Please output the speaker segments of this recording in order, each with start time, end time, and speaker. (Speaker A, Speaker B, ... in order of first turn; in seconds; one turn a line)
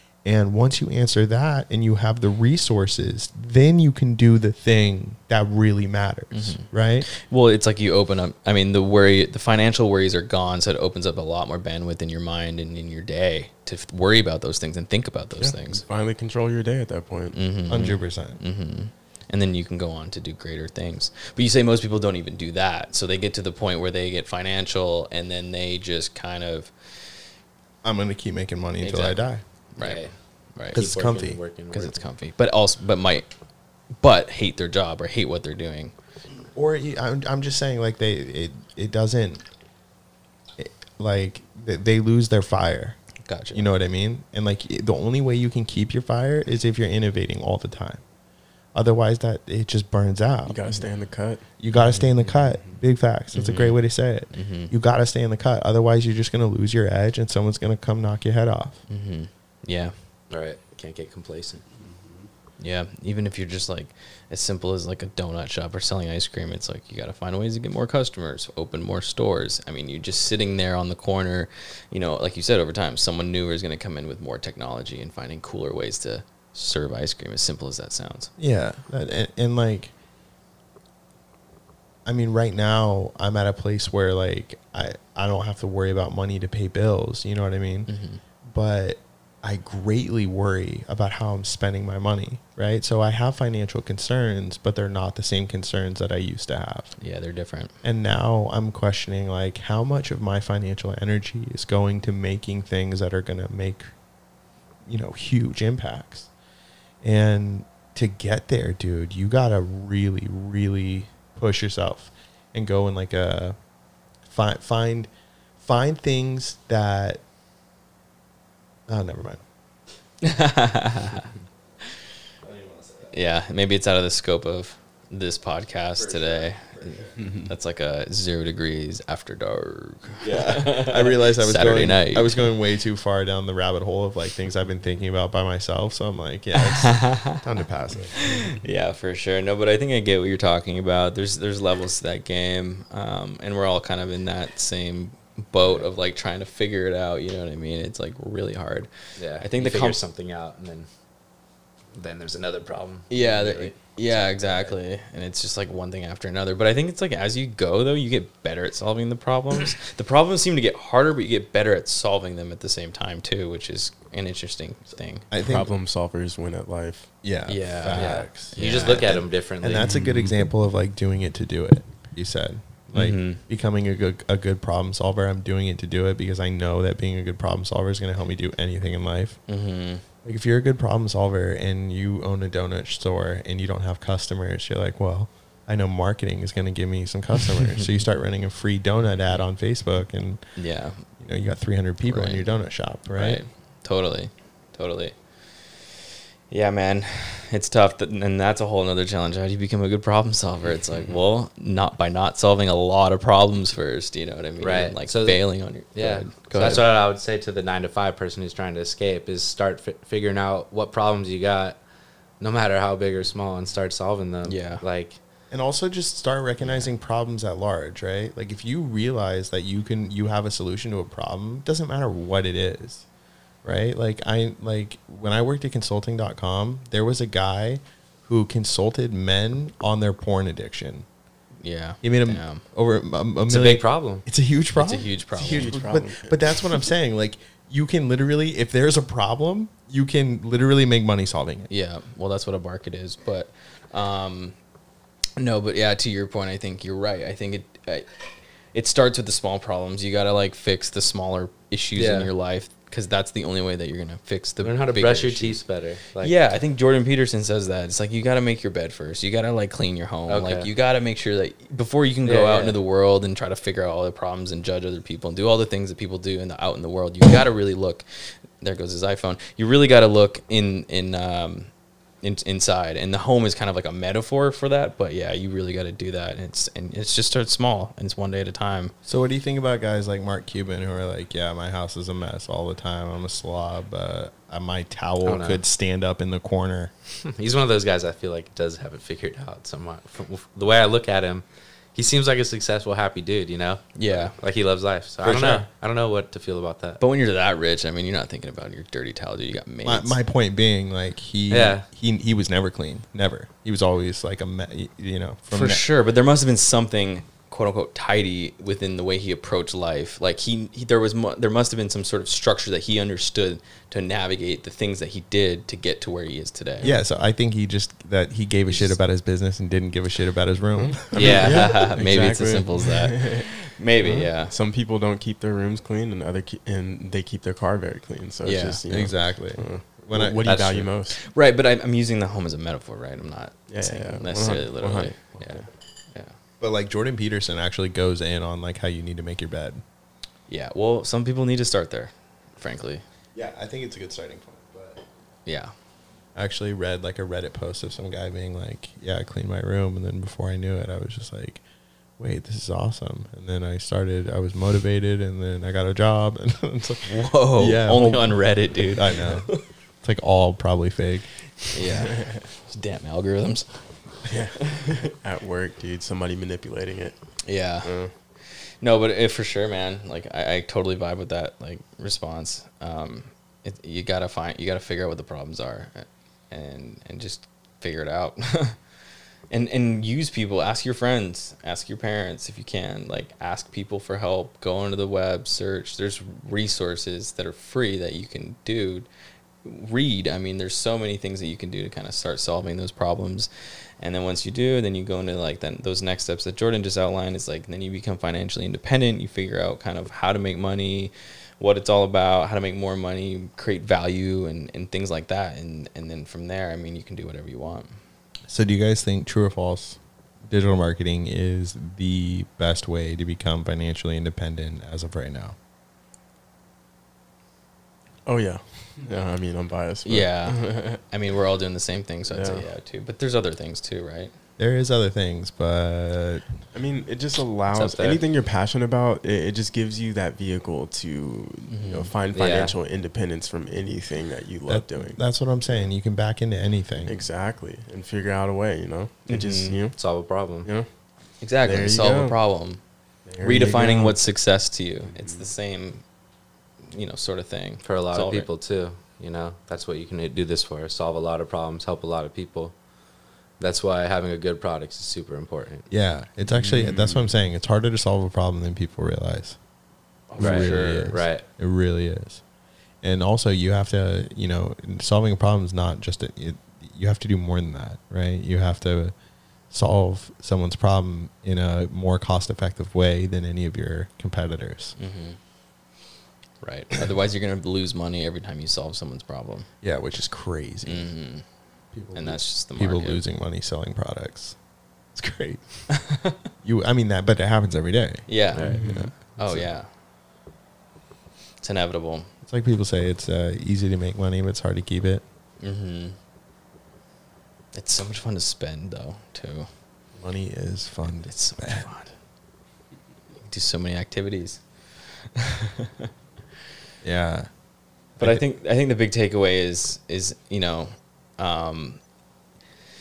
Speaker A: 0.2-7.1
Speaker B: 6.3-15.8
Speaker C: 15.4-17.4
Speaker B: 17.3-26.9
Speaker A: 17.7-18.4
Speaker A: 27.8-29.4
Speaker B: 28.8-30.0
Speaker D: 29.8-30.1
Speaker B: 30.6-30.8
Speaker D: 30.7-32.0
Speaker A: 30.7-31.4
Speaker B: 31.7-33.3
Speaker B: 34.0-35.9
Speaker A: 36.5-39.4
Speaker A: 40.6-43.0
Speaker B: 43.2-43.7
Speaker A: 43.5-48.0
Speaker A: 48.7-50.8
Speaker C: 50.5-51.4
Speaker A: 51.6-58.8
Speaker B: 51.7-52.1
Speaker B: 53.3-53.8
Speaker B: 54.3-54.7
Speaker B: 58.9-59.9
Speaker D: 60.3-61.6
Speaker B: 62.6-78.3
Speaker A: 78.4-79.9
Speaker A: 82.0-87.9
Speaker B: 87.9-88.2
Speaker A: 88.4-96.9
Speaker B: 97.0-97.7
Speaker A: 97.8-103.9
Speaker A: 104.8-106.3
Speaker A: 107.0-113.5
Speaker A: 114.2-115.1
Speaker A: 115.6-117.2
Speaker A: 118.9-119.4
Speaker B: 120.2-121.3
Speaker A: 122.4-123.1
Speaker B: 123.1-132.5
Speaker A: 126.0-127.1
Speaker A: 130.2-138.3
Speaker B: 136.5-137.4
Speaker B: 138.1-150.0
Speaker D: 149.2-150.9
Speaker D: 151.9-154.8
Speaker B: 153.1-165.2
Speaker A: 165.3-165.7
Speaker C: 165.3-167.1
Speaker A: 167.2-179.4
Speaker B: 167.5-169.1
Speaker D: 167.8-169.9
Speaker C: 169.8-170.3
Speaker B: 172.9-173.4
Speaker B: 179.5-180.0
Speaker A: 180.2-190.4
Speaker B: 190.6-191.1
Speaker A: 191.2-193.4
Speaker B: 192.0-192.6
Speaker B: 193.1-195.9
Speaker B: 196.5-206.8
Speaker D: 204.6-211.8
Speaker D: 212.4-215.2
Speaker B: 214.4-214.8
Speaker A: 215.5-223.1
Speaker A: 223.6-231.1
Speaker B: 231.6-232.6
Speaker A: 232.0-241.7
Speaker D: 233.5-234.2
Speaker B: 234.7-235.8
Speaker C: 235.3-236.6
Speaker B: 241.7-244.6
Speaker B: 245.4-248.1
Speaker B: 248.7-255.6
Speaker D: 251.9-252.3
Speaker D: 254.6-256.3
Speaker B: 256.2-271.7
Speaker D: 260.3-260.7
Speaker D: 262.2-262.8
Speaker B: 272.2-278.9
Speaker A: 279.0-286.9
Speaker D: 285.2-285.6
Speaker D: 287.1-291.4
Speaker D: 291.9-297.0
Speaker B: 293.9-294.3
Speaker B: 295.2-295.6
Speaker B: 297.0-300.2
Speaker A: 299.8-305.8
Speaker D: 301.5-301.9
Speaker B: 305.5-316.9
Speaker A: 316.8-321.5
Speaker B: 318.7-318.9
Speaker C: 320.8-331.2
Speaker D: 321.1-321.9
Speaker B: 321.2-324.5
Speaker B: 328.4-328.8
Speaker A: 328.9-330.6
Speaker B: 330.4-336.3
Speaker C: 333.7-335.6
Speaker A: 336.6-339.8
Speaker B: 340.5-343.0
Speaker A: 343.3-345.0
Speaker B: 345.4-345.7
Speaker A: 346.3-351.6
Speaker A: 352.2-359.5
Speaker B: 357.0-359.6
Speaker A: 360.0-361.3
Speaker B: 361.7-363.8
Speaker C: 362.0-362.4
Speaker C: 364.2-367.2
Speaker B: 367.4-378.8
Speaker C: 367.8-368.1
Speaker B: 379.5-389.1
Speaker B: 389.6-393.5
Speaker B: 394.0-408.0
Speaker A: 408.5-415.6
Speaker C: 418.2-421.0
Speaker B: 420.0-424.3
Speaker C: 422.3-422.6
Speaker A: 424.6-426.4
Speaker C: 426.7-435.2
Speaker B: 427.7-428.2
Speaker B: 431.7-432.1
Speaker D: 432.3-432.7
Speaker A: 434.7-437.2
Speaker C: 437.0-440.0
Speaker B: 439.3-439.8
Speaker D: 439.9-440.7
Speaker B: 441.4-442.8
Speaker C: 441.6-442.3
Speaker C: 443.2-444.2
Speaker B: 443.4-446.0
Speaker C: 445.1-445.4
Speaker B: 446.9-448.5
Speaker D: 447.8-452.7
Speaker D: 453.6-455.9
Speaker A: 455.9-459.6
Speaker C: 456.5-457.3
Speaker B: 460.3-461.1
Speaker D: 460.4-461.4
Speaker A: 460.4-462.4
Speaker A: 463.0-469.1
Speaker A: 469.7-474.9
Speaker B: 475.0-475.4
Speaker B: 476.6-479.7
Speaker A: 479.8-481.1
Speaker B: 480.9-481.4
Speaker A: 481.9-484.6
Speaker B: 482.1-483.2
Speaker A: 485.1-485.9
Speaker B: 485.9-486.4
Speaker A: 486.6-489.7
Speaker B: 488.3-489.9
Speaker D: 488.5-488.9
Speaker C: 488.7-489.1
Speaker B: 491.6-492.3
Speaker A: 492.4-495.2
Speaker B: 495.6-496.2
Speaker B: 497.7-499.7
Speaker A: 500.1-501.9
Speaker B: 501.2-502.1
Speaker B: 503.4-504.6
Speaker B: 505.3-506.1
Speaker A: 507.0-507.5
Speaker B: 508.2-512.0